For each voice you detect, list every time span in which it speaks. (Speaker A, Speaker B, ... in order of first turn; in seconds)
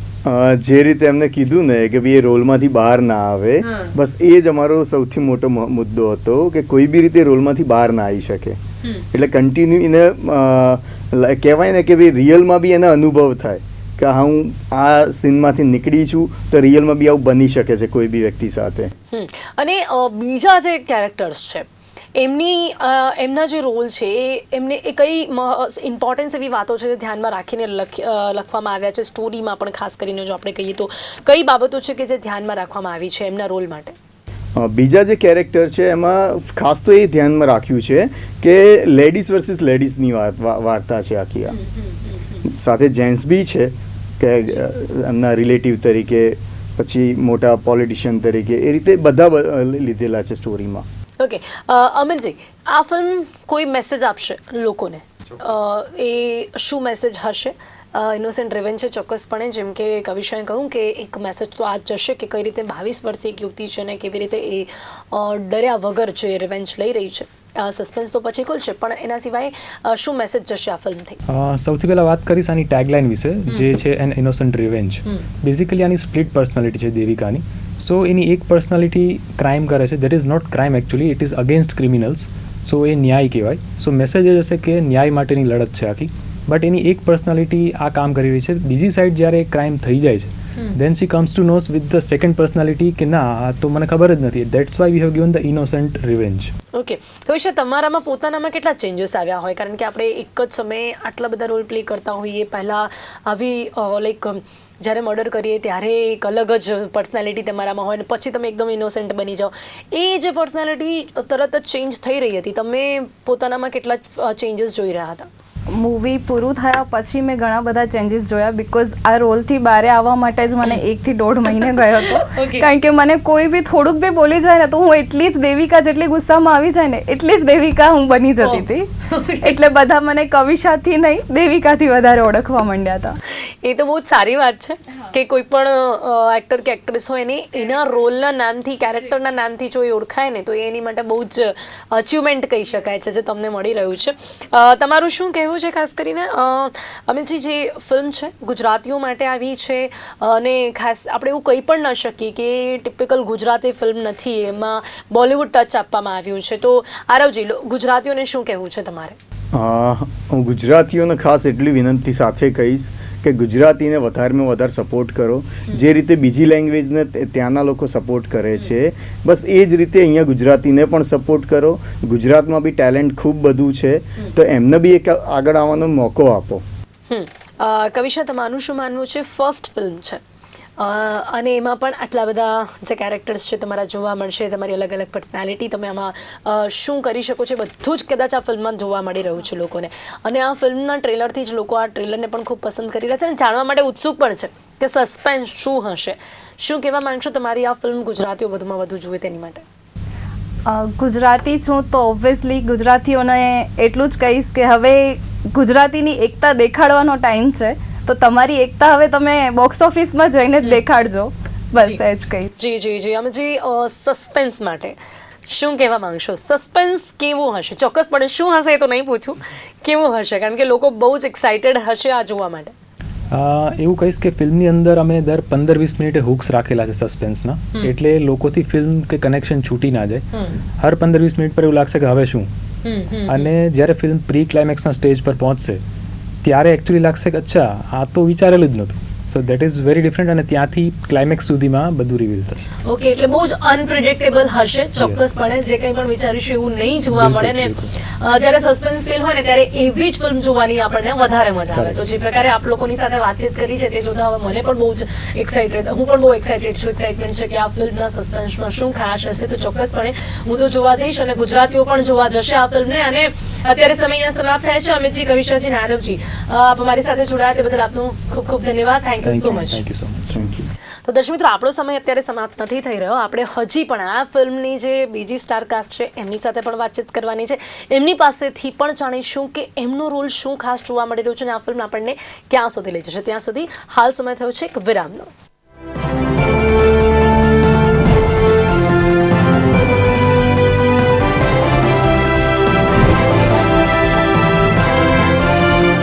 Speaker A: 0.3-8.6, 9.1-18.9, 34.6-41.6, 42.5-50.8, 159.5-176.6, 270.3-270.6
Speaker B: 3.6-4.0, 19.1-34.0, 41.5-42.5, 51.2-71.2, 96.7-115.3, 122.0-122.7, 128.4-129.6, 133.3-159.2, 177.1-180.2, 180.8-199.6, 212.6-222.7, 230.3-230.6, 232.8-233.5, 242.8-269.8, 271.1-285.3
Speaker C: 71.3-96.5, 223.3-230.3, 230.8-232.5, 233.3-235.8, 236.4-242.7, 245.0-245.3, 247.1-247.9, 251.7-252.0, 269.2-270.7
Speaker D: 115.7-133.2, 200.7-212.5